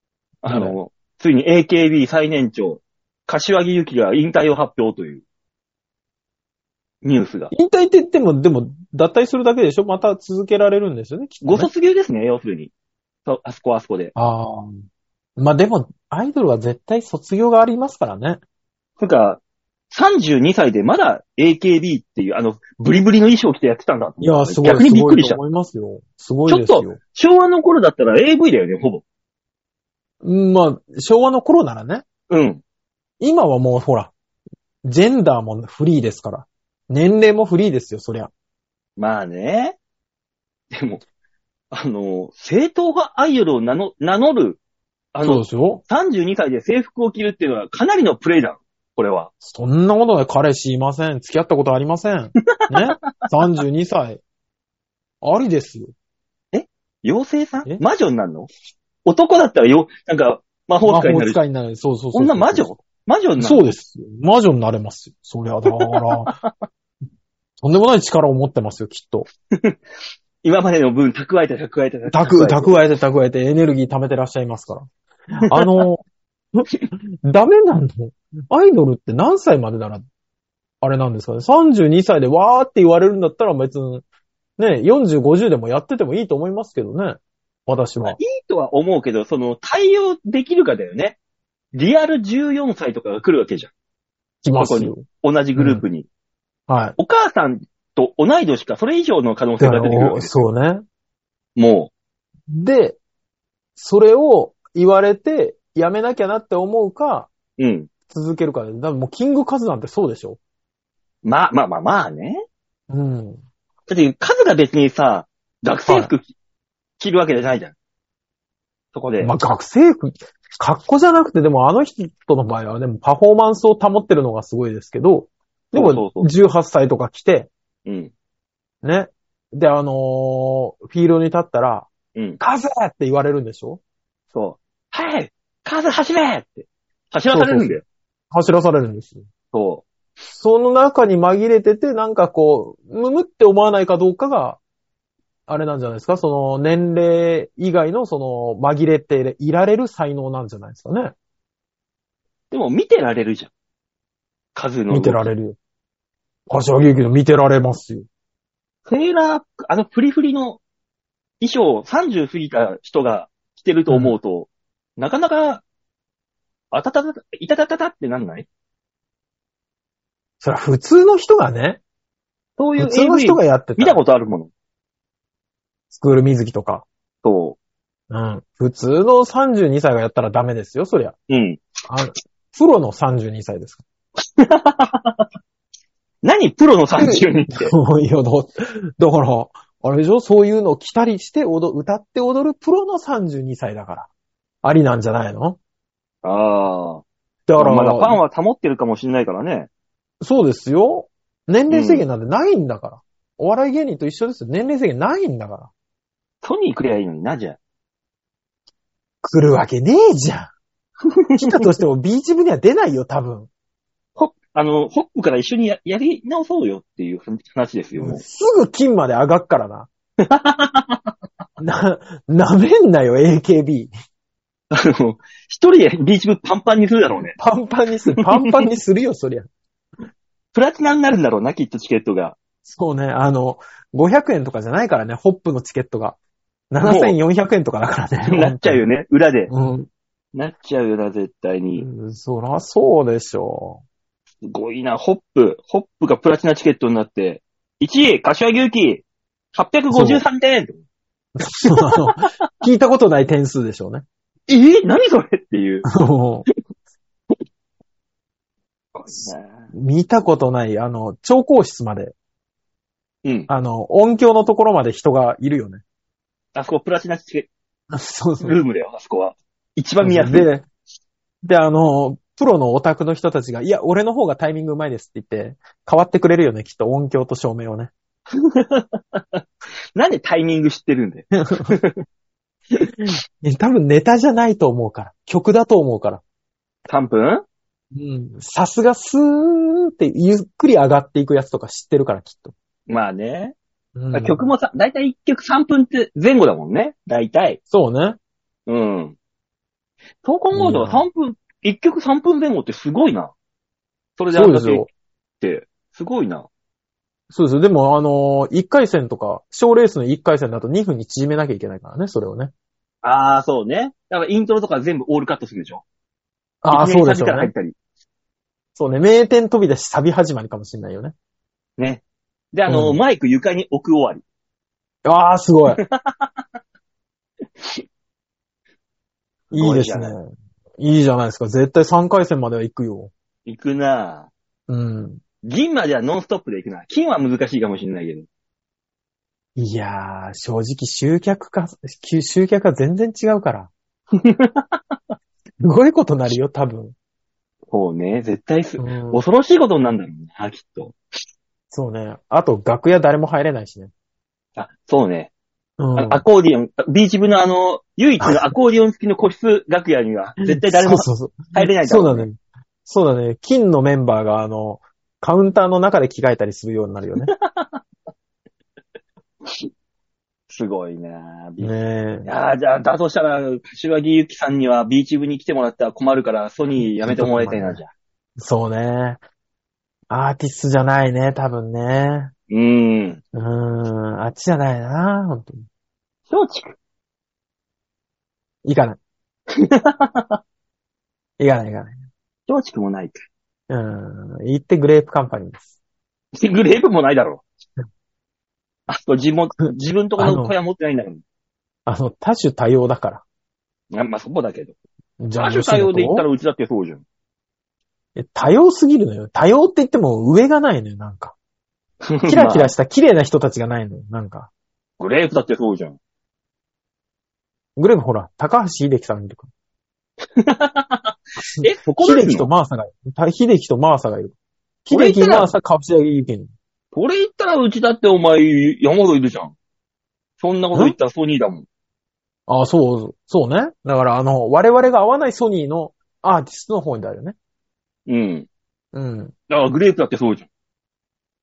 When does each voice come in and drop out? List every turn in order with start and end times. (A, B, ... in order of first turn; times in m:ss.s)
0:00.4-0:05.2 A
0:00.4-0:00.8 B
0:07.0-0:07.5 A
0:07.5-0:11.7 B
0:11.4-0:12.7 A
0:13.3-0:14.1 A
0:14.2-0:14.8 B
0:15.4-0:18.4 B
0:19.0-0:19.4 A
0:19.9-0:25.4 A
0:24.2-0:27.0 B
0:26.5-0:29.0 A
0:30.2-0:32.0 B
0:32.3-0:32.6 A
0:33.2-0:34.1 B
0:34.8-0:38.3 B
0:39.0-0:39.8 A
0:40.7-0:41.0 A
0:41.7-0:44.6 A
0:45.1-0:49.3 A
0:45.2-0:45.8 B
0:49.4-0:54.2 B
0:55.2-0:55.9 B
0:56.5-0:58.5 A
0:59.0-1:01.4 A
1:00.8-1:02.7 B
1:02.1-1:03.7 A
1:03.4-1:06.3 B
1:05.7-1:06.5 A
1:07.6-1:09.3 B
1:10.4-1:12.8 A
1:12.1-1:14.8 B
1:15.4-1:16.0 B
1:16.5-1:20.0 B
1:20.8-1:24.0 B
1:24.6-1:28.2 B
1:28.0-1:31.2 A
1:31.7-1:33.7 A
1:34.4-1:35.0 B
1:34.6-1:36.1 A
1:35.6-1:35.8 B
1:36.7-1:37.0 B
1:37.0-1:40.4 A
1:39.6-1:40.8 B
1:41.6-1:41.9 A
1:42.5-1:43.0 B
1:43.8-1:47.3 B
1:47.6-1:47.9 A
1:48.1-1:50.4 B
1:51.2-1:52.4 A
1:52.9-1:53.4 B
1:53.9-1:56.3 A
1:55.9-1:56.1 B
1:57.0-1:57.8 A
1:58.9-1:59.3 A
1:59.2-2:07.5 B
2:05.7-2:06.3 A
2:07.9-2:08.1 A
2:08.8-2:11.9 B
2:12.2-2:12.4 A
2:12.4-2:13.8 B
2:14.3-2:17.8 A
2:17.3-2:17.8 B
2:18.3-2:19.3 B
2:19.5-2:19.8 A
2:20.3-2:24.6 B
2:25.5-2:31.1 B
2:32.5-2:33.5 A
2:34.6-2:35.3 A
2:34.9-2:35.6 B
2:36.5-2:38.1 B
2:38.9-2:40.6 A
2:41.4-2:45.6 A
2:43.9-2:44.2 B
2:46.7-2:48.5 A
2:50.4-2:51.8 B
2:52.6-2:54.5 A
2:52.8-2:54.0 B
2:55.9-2:56.9 B
2:57.2-2:57.6 A
2:58.1-3:01.2 B
3:01.3-3:01.7 A
3:01.9-3:03.8 B
3:04.4-3:05.2 A
3:06.2-3:07.7 A
3:07.0-3:14.1 B
3:14.6-3:15.6 B
3:16.2-3:17.0 A
3:17.5-3:18.2 B
3:17.6-3:19.7 A
3:20.2-3:25.7 B
3:21.7-3:22.1 A
3:26.4-3:27.6 A
3:29.2-3:30.5 B
3:31.1-3:31.7 A
3:31.4-3:33.5 B
3:34.2-3:38.2 A
3:38.0-3:39.9 B
3:40.2-3:41.0 A
3:41.6-3:43.9 B
3:44.7-3:47.4 A
3:47.4-3:49.5 B
3:48.1-3:48.5 A
3:50.5-3:52.4 A
3:52.6-3:56.2 B
3:56.7-3:58.8 B
3:56.8-3:57.2 A
3:58.3-3:59.5 A
3:59.5-3:59.9 B
4:00.3-4:01.9 A
4:01.8-4:03.8 B
4:04.4-4:10.8 A
4:09.9-4:10.2 B
4:11.4-4:14.0 B
4:11.7-4:12.3 A
4:14.5-4:15.9 A
4:15.9-4:16.5 B
4:19.0-4:19.7 A
4:19.2-4:22.2 B
4:23.2-4:23.5 A
4:23.5-4:25.8 B
4:26.6-4:27.5 A
4:27.9-4:28.6 B
4:28.4-4:30.5 A
4:30.0-4:30.6 B
4:31.4-4:37.9 B
4:38.3-4:39.4 A
4:40.0-4:42.0 A
4:41.3-4:41.8 B
4:43.0-4:46.2 B
4:46.9-4:47.4 A
4:47.9-4:52.5 B
4:52.9-4:53.6 A
4:54.0-4:54.5 B
4:54.1-4:57.6 A
4:57.7-4:58.2 B
4:58.7-4:59.2 A
5:00.2-5:03.3 A
5:00.5-5:01.1 B
5:04.2-5:04.9 A
5:04.3-5:04.9 B
5:05.4-5:06.5 A
5:07.3-5:12.5 B
5:13.0-5:15.8 A
5:16.6-5:17.5 B
5:16.7-5:17.8 A
5:18.8-5:21.1 B
5:22.5-5:24.2 A
5:22.7-5:23.0 B
5:25.0-5:25.8 B
5:25.7-5:26.3 A
5:29.5-5:30.2 B
5:29.5-5:30.1 A
5:30.8-5:33.1 B
5:33.5-5:34.3 A
5:34.7-5:35.2 B
5:35.4-5:38.3 A
5:39.6-5:43.7 B
5:44.1-5:45.0 A
5:45.6-5:47.0 B
5:47.7-5:51.0 A
5:48.8-5:49.2 B
5:51.7-5:53.9 B
5:54.6-5:55.3 A
5:55.8-5:56.2 B
5:56.0-6:02.3 A
6:00.4-6:07.3 B
6:07.2-6:07.8 A
6:09.4-6:09.7 A
6:10.5-6:11.7 A
6:11.6-6:12.3 B
6:12.2-6:17.9 A
6:16.8-6:17.8 B
6:18.4-6:19.2 B
6:20.1-6:22.3 B
6:22.5-6:23.2 A
6:23.3-6:25.7 B
6:26.3-6:26.8 A
6:28.6-6:29.0 B
6:29.5-6:30.4 A
6:31.4-6:32.0 B
6:32.5-6:33.2 A
6:33.7-6:35.7 B
6:36.4-6:37.4 A
6:38.9-6:41.2 A
6:40.2-6:40.6 B
6:41.9-6:43.2 B
6:43.9-6:44.8 A
6:45.2-6:46.2 B
6:45.4-6:47.0 A
6:48.2-6:51.4 B
6:52.1-6:52.7 A
6:52.3-6:54.5 B
6:55.0-6:56.0 A
6:57.8-6:59.5 B
7:00.4-7:02.5 A
7:01.6-7:06.5 B
7:04.9-7:05.5 A
7:06.9-7:09.6 A
7:10.4-7:11.7 A
7:12.5-7:17.4 B
7:18.1-7:18.5 A
7:18.9-7:19.3 B
7:19.5-7:20.5 A